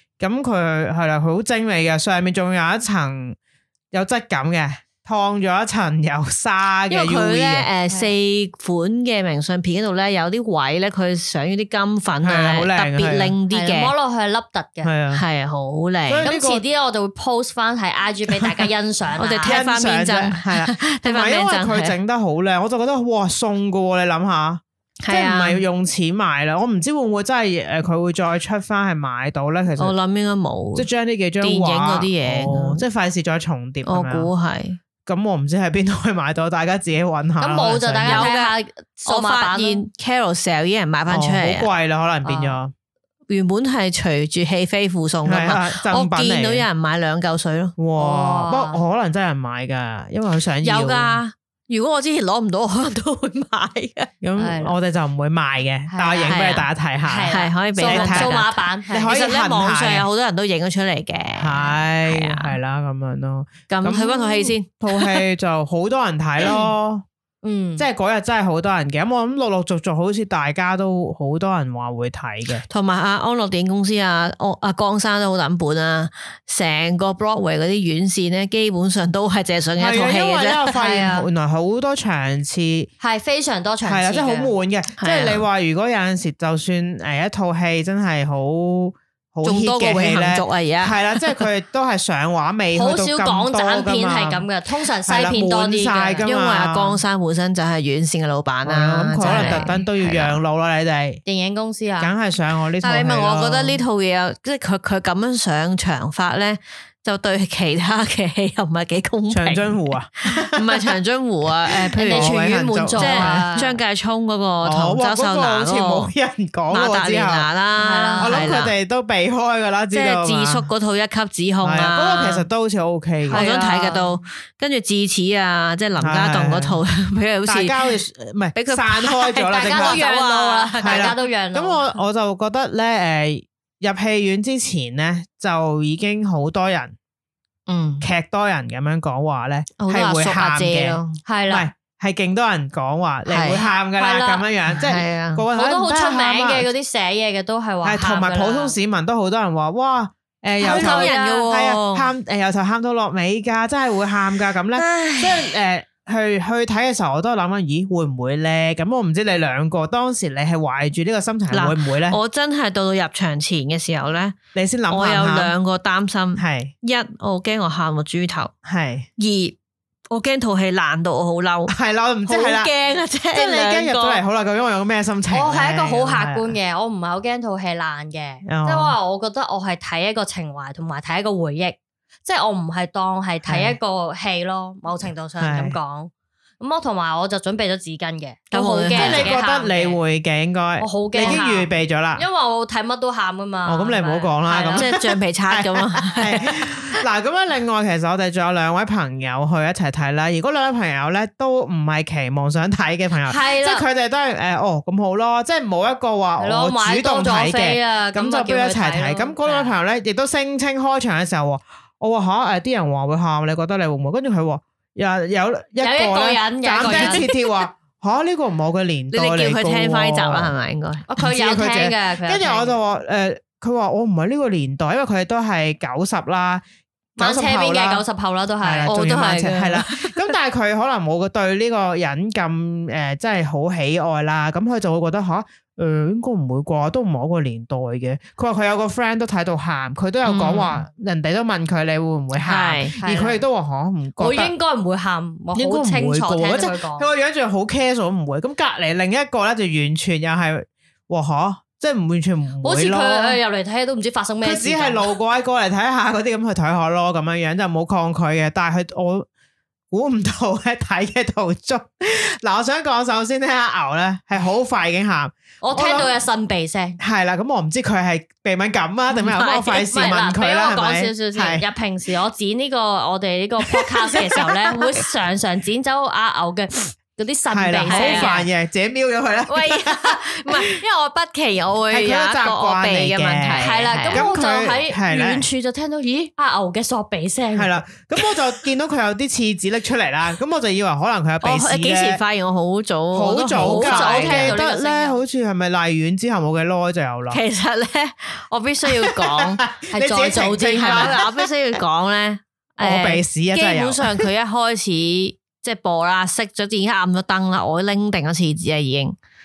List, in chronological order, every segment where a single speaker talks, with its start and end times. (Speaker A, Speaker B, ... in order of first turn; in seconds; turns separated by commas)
Speaker A: 0.2-3.4, Speaker A: 3.9-7.7, Speaker B: 6.9-13.9, Speaker A: 12.2-13.3, Speaker C: 13.5-14.9, Speaker A: 14.8-15.2, Speaker B: 15.1-16.3, Speaker A: 16.1-16.6, Speaker C: 16.2-19.6, Speaker B: 19.2-21.9, Speaker A: 19.4-29.9, Speaker B: 25.0-25.6, Speaker B: 29.8-30.9, Speaker A: 30.7-34.3, Speaker B: 31.4-32.8, Speaker B: 33.8-34.8, Speaker A: 35.0-38.3, Speaker C: 37.4-39.8, Speaker B: 38.0-41.7, Speaker A: 41.1-42.7, Speaker B: 43.3-47.8, Speaker A: 45.2-46.6, Speaker A: 47.8-51.2, Speaker C: 48.0-48.8, Speaker B: 50.6-54.1, Speaker A: 54.2-60.1, Speaker C: 54.4-54.8, Speaker C: 55.9-56.5, Speaker B: 56.3-56.6, Speaker C: 57.0-59.1, Speaker B: 57.3-62.5, Speaker A: 61.4-67.0, Speaker B: 63.7-65.2, Speaker C: 67.4-67.9, Speaker A: 67.8-72.6, Speaker B: 72.7-80.7, Speaker A: 79.8-82.9, Speaker C: 80.7-81.3, Speaker C: 83.0-84.5, Speaker A: 83.8-94.5, Speaker B: 85.0-85.4, Speaker B: 89.4-91.4, Speaker C: 92.7-96.2, Speaker A: 95.0-97.0, Speaker B: 96.2-100.4, Speaker A: 98.6-101.2, Speaker C: 99.2-99.8, Speaker C: 101.2-102.1, Speaker A: 102.0-103.8, Speaker B: 102.8-116.1, Speaker A: 109.3-110.9, Speaker A: 111.6-113.7, Speaker C: 112.0-113.7, Speaker A: 114.6-117.5, Speaker B: 116.7-118.7, Speaker C: 117.8-118.4, Speaker A: 118.2-120.6, Speaker B: 119.9-122.5, Speaker A: 121.6-123.4, Speaker C: 123.3-124.1, Speaker B: 123.3-127.9, Speaker A: 126.0-126.8, Speaker A: 127.5-130.0, Speaker B: 128.5-131.2, Speaker C: 129.5-131.9, Speaker A: 130.8-136.9, Speaker B: 137.7-138.1, Speaker A: 138.0-146.7, Speaker B: 139.8-141.2, Speaker C: 141.2-141.7, Speaker B: 143.3-143.6, Speaker C: 143.6-144.4, Speaker B: 144.7-145.4, Speaker C: 145.5-148.8, Speaker A: 147.8-162.2, Speaker C: 150.6-151.4, Speaker B: 150.6-152.1, Speaker B: 154.7-155.5, Speaker B: 161.5-164.4, Speaker A: 164.5-165.5, Speaker B: 164.9-168.5, Speaker A: 166.3-166.7, Speaker A: 168.6-169.1, Speaker B: 169.2-169.6, Speaker B: 170.1-171.7, Speaker A: 171.7-172.7, Speaker B: 172.3-174.2, Speaker A: 173.3-176.5, Speaker C: 175.3-190.0, Speaker A: 178.4-178.9, Speaker A: 183.4-183.8, Speaker A: 185.4-185.8, Speaker B: 188.5-189.3, Speaker A: 188.9-192.2, Speaker C: 190.8-194.9, Speaker A: 193.7-220.5, Speaker B: 194.7-196.8, Speaker C: 203.2-203.8, Speaker C: 206.4-209.7, Speaker C: 215.8-217.2, Speaker B: 216.8-217.5, Speaker B: 219.1-221.1, Speaker C: 221.1-222.8, Speaker A: 221.2-226.6, Speaker A: 227.2-228.0, Speaker C: 227.2-229.6, Speaker A: 228.6-244.5, Speaker B: 228.9-230.3, Speaker B: 240.2-240.8, Speaker B: 242.3-242.9, Speaker C: 243.0-243.4, Speaker C: 244.2-247.1, Speaker A: 245.5-253.4, Speaker C: 252.6-255.1, Speaker A: 254.4-259.3, Speaker A: 259.9-266.1, Speaker C: 265.6-267.0, Speaker A: 267.0-271.6, Speaker C: 269.4-278.4, Speaker A: 273.7-274.4, Speaker A: 277.5-280.7, Speaker B: 277.9-278.4, Speaker B: 279.5-284.2, Speaker A: 281.9-285.5, Speaker C: 283.6-287.8, Speaker A: 287.5-292.2, Speaker B: 291.4-294.6, Speaker A: 293.1-297.4, Speaker C: 293.6-295.2, Speaker B: 297.3-299.6, Speaker A: 299.0-301.5, Speaker C: 299.9-301.2, Speaker B: 300.7-309.1, Speaker A: 302.8-304.2